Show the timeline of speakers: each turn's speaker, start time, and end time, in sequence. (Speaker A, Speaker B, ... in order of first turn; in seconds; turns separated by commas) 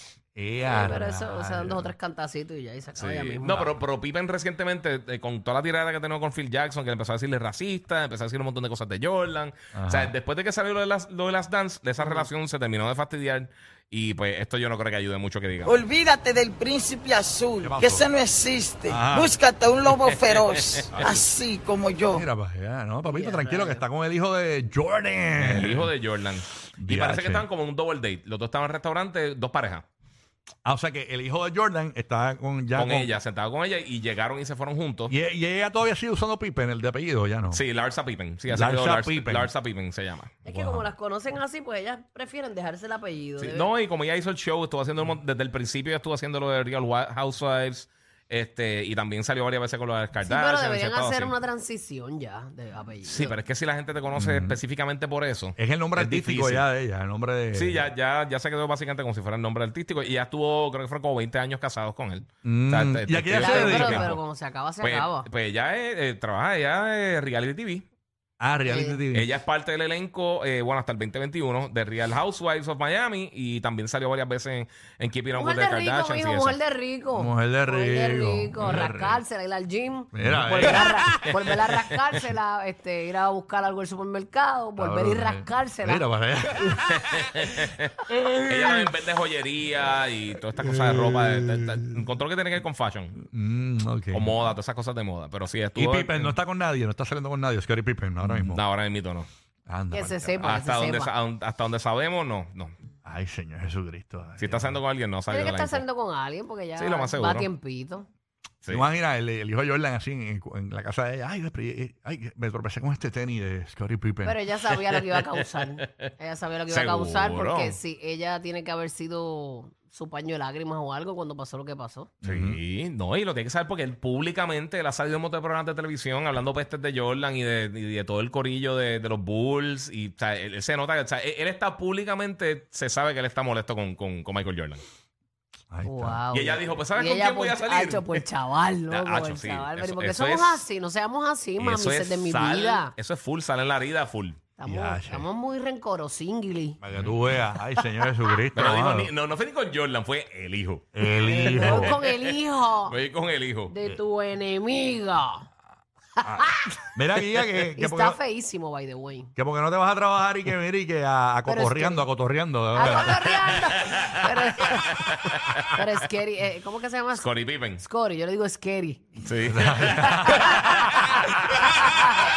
Speaker A: 0.3-1.9, Speaker B: 0.6-3.8, Speaker C: 2.9-15.8, Speaker A: 9.7-10.1, Speaker B: 12.0-12.3, Speaker D: 15.6-22.2, Speaker A: 17.6-18.1, Speaker A: 18.9-19.3, Speaker C: 20.1-21.1, Speaker A: 20.9-21.2, Speaker A: 22.1-25.9, Speaker B: 23.1-23.8, Speaker C: 25.4-29.8, Speaker A: 26.8-27.5, Speaker A: 30.6-33.1, Speaker C: 32.7-35.1, Speaker A: 35.1-37.6, Speaker C: 37.5-40.3, Speaker A: 38.5-39.5, Speaker B: 40.4-43.7, Speaker A: 40.5-40.9, Speaker C: 43.4-51.3, Speaker B: 50.2-53.4, Speaker C: 53.0-56.6, Speaker A: 54.1-54.6, Speaker A: 55.6-57.9, Speaker C: 57.5-64.2, Speaker A: 62.4-64.2, Speaker B: 63.3-65.3, Speaker C: 64.8-67.8, Speaker A: 68.4-69.3, Speaker B: 68.6-69.0, Speaker C: 69.1-76.6, Speaker B: 75.3-86.8, Speaker A: 77.1-79.2, Speaker A: 80.1-81.3, Speaker C: 80.3-80.7, Speaker A: 84.8-86.8, Speaker C: 87.0-87.9, Speaker B: 88.2-88.8, Speaker C: 88.4-93.2, Speaker A: 90.5-91.8, Speaker A: 93.2-94.3, Speaker C: 94.1-96.3, Speaker A: 95.8-98.6, Speaker C: 98.2-99.3, Speaker A: 99.7-100.5, Speaker B: 99.9-101.1, Speaker C: 100.4-102.7, Speaker A: 103.0-104.8, Speaker C: 104.4-105.8, Speaker B: 105.3-108.0, Speaker C: 106.8-107.5, Speaker A: 108.7-114.4, Speaker B: 114.2-122.1, Speaker C: 115.6-116.0, Speaker C: 116.7-117.8, Speaker A: 122.2-122.6, Speaker C: 122.2-134.8, Speaker A: 135.7-136.2, Speaker B: 135.8-142.9, Speaker C: 136.3-138.2, Speaker C: 138.9-140.6, Speaker C: 141.6-144.4, Speaker B: 144.6-146.8, Speaker A: 144.6-145.3, Speaker A: 146.8-149.1, Speaker C: 148.5-153.7, Speaker A: 150.9-152.0, Speaker B: 151.2-153.0, Speaker B: 153.7-155.5, Speaker B: 156.2-156.8, Speaker A: 156.2-158.2, Speaker B: 157.8-159.3, Speaker A: 159.3-163.4, Speaker B: 161.4-162.1, Speaker B: 162.7-165.1, Speaker C: 162.8-165.8, Speaker B: 165.7-169.1, Speaker C: 167.1-167.8, Speaker C: 169.2-171.7, Speaker A: 169.5-170.7, Speaker B: 170.1-171.3